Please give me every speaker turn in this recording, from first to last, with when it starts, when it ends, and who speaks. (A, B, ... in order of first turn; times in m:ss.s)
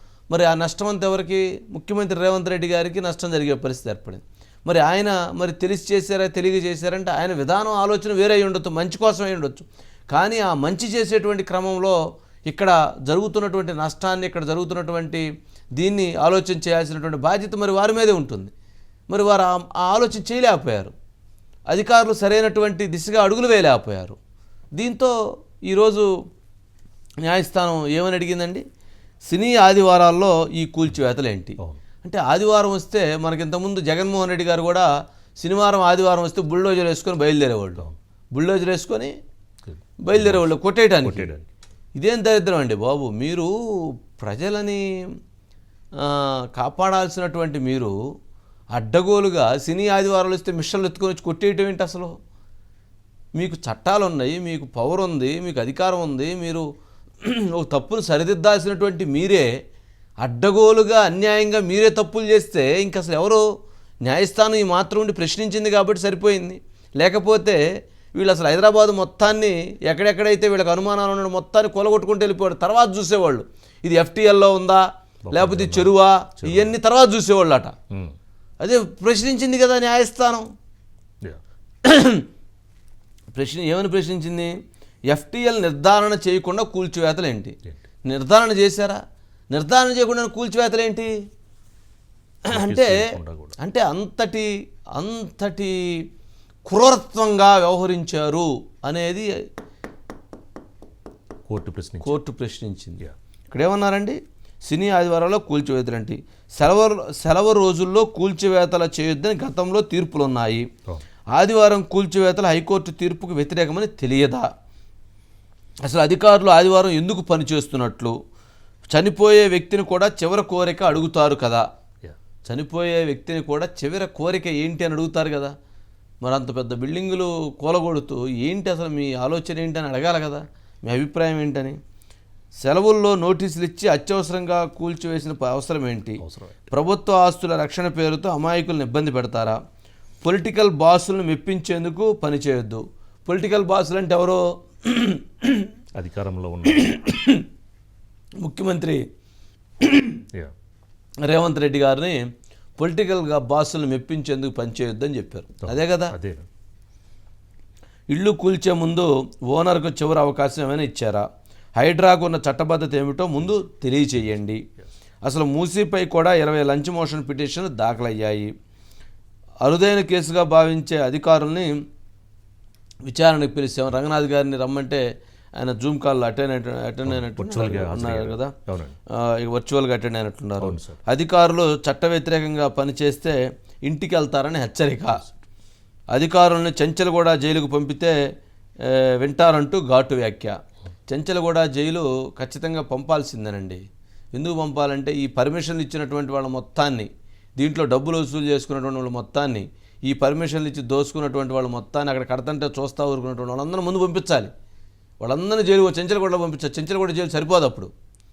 0:00.3-0:15.2 A
0:15.8-0:18.5 A
0:19.1-0:20.9 A
0:21.7-0:24.2 A
0:24.8-0:25.1 A
0:25.7-0:26.1 A
0:27.2-0:28.6 A
0:29.3-0:34.9 A
0:35.4-0:39.1 A
0:39.6-0:40.5 B
0:40.0-0:41.3 A
0:41.0-0:41.5 B
0:42.0-0:43.5 A
0:44.2-0:44.8 A
0:46.0-0:47.9 A
0:48.7-0:52.1 A
0:53.4-0:56.7 A
0:57.2-0:59.5 A
1:00.2-1:03.4 A
1:04.0-1:07.6 A
1:08.2-1:17.7 A
1:15.3-1:16.7 B
1:17.9-1:18.2 B
1:18.6-1:20.5 A
1:21.8-1:22.3 A
1:23.3-1:24.6 A
1:25.1-1:31.2 A
1:32.5-1:33.1 A
1:32.5-1:33.6 B
1:33.6-1:36.1 A
1:36.7-1:39.3 A
1:41.5-1:42.2 B
1:42.0-1:50.7 A
1:51.3-1:54.5 A
1:55.8-1:58.2 A
1:58.9-2:01.7 A
2:02.4-2:05.5 A
2:06.2-2:11.8 A
2:12.6-2:19.6 A
2:16.2-2:16.7 B
2:20.2-2:25.7 A
2:26.0-2:26.9 B
2:26.7-2:27.5 A
2:28.4-2:29.0 A
2:29.8-2:30.2 A
2:31.2-2:36.1 A
2:35.6-2:36.5 B
2:38.1-2:44.6 A
2:45.2-2:48.5 A
2:49.6-2:51.7 A
2:53.1-2:55.0 A
2:55.6-2:58.5 A
2:57.1-2:59.0 B
2:59.2-3:05.2 A
3:00.6-3:01.0 B
3:06.1-3:08.2 A
3:08.8-3:10.6 A
3:11.1-3:24.5 A
3:25.2-3:27.9 A